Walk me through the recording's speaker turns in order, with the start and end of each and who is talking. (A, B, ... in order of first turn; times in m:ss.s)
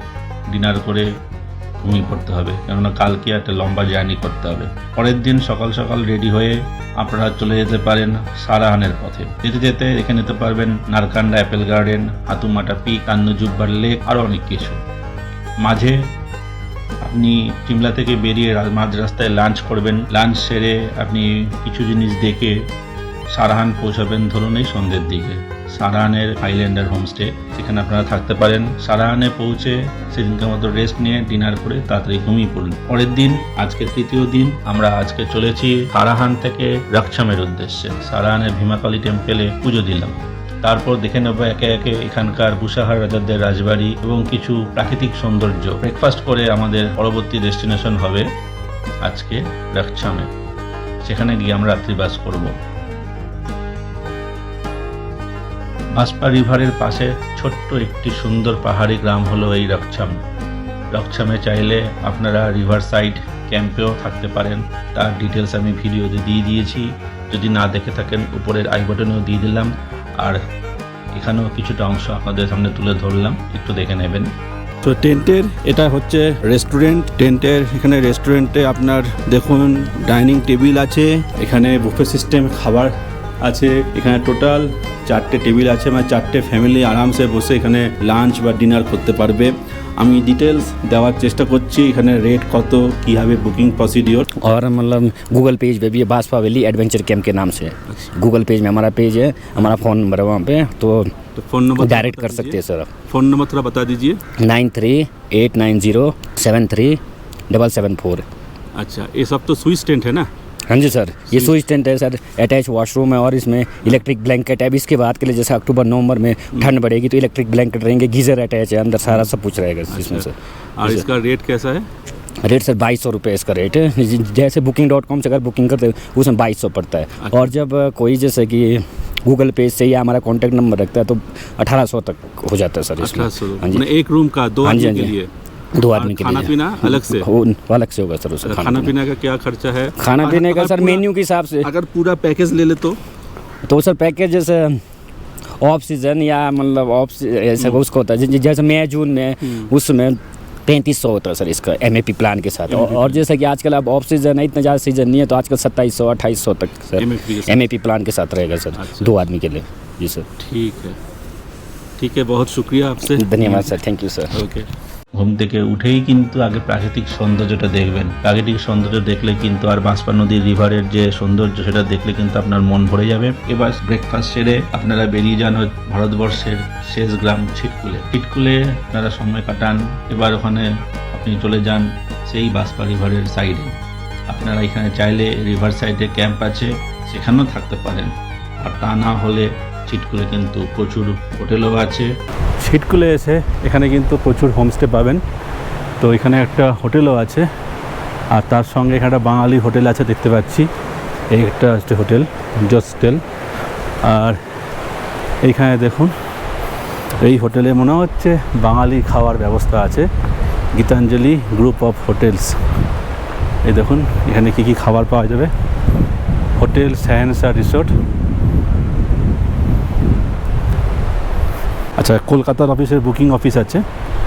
0:00.5-0:01.1 A
0:01.8-0:14.8 A
0:15.6-0:16.0 A
0:17.0-0:22.6 A
0:23.3-0:48.3 A
0:49.0-0:50.3 A
0:51.0-0:52.6 A
0:56.0-1:00.2 A
1:00.9-1:10.4 A
1:11.1-1:14.3 A
1:14.8-1:34.3 B
1:34.3-1:41.2 C
1:41.4-1:42.6 B
1:41.8-1:43.0 C
1:43.1-1:44.2 B
1:44.4-1:48.2 C
1:48.8-1:50.3 B
1:50.7-2:01.1 C
1:51.3-1:51.6 B
1:59.9-2:01.9 B
2:02.4-2:13.9 C
2:07.2-2:07.5 B
2:13.0-2:15.3 B
2:14.6-2:15.2 C
2:15.8-2:18.9 C
2:15.9-2:17.3 B
2:18.4-2:21.0 B
2:20.0-2:21.7 C
2:21.6-2:23.0 B
2:23.7-2:24.8 C
2:25.6-2:40.3 C
2:32.7-2:33.2 B
2:37.0-2:37.6 B
2:38.8-2:39.1 B
2:40.4-2:41.0 B
2:42.0-2:43.8 B
2:43.1-2:44.4 C
2:44.3-2:44.7 B
2:45.2-3:03.8 A
3:04.3-3:12.1 A
3:12.6-3:15.2 B
3:16.0-3:17.5 B
3:18.3-3:20.7 B
3:21.3-3:23.2 B
3:24.0-3:24.4 B
3:25.4-3:26.1 B
3:27.2-3:30.1 B
3:30.8-3:32.6 B
3:33.6-3:35.5 B
3:36.6-3:37.9 B
3:42.0-3:43.8 B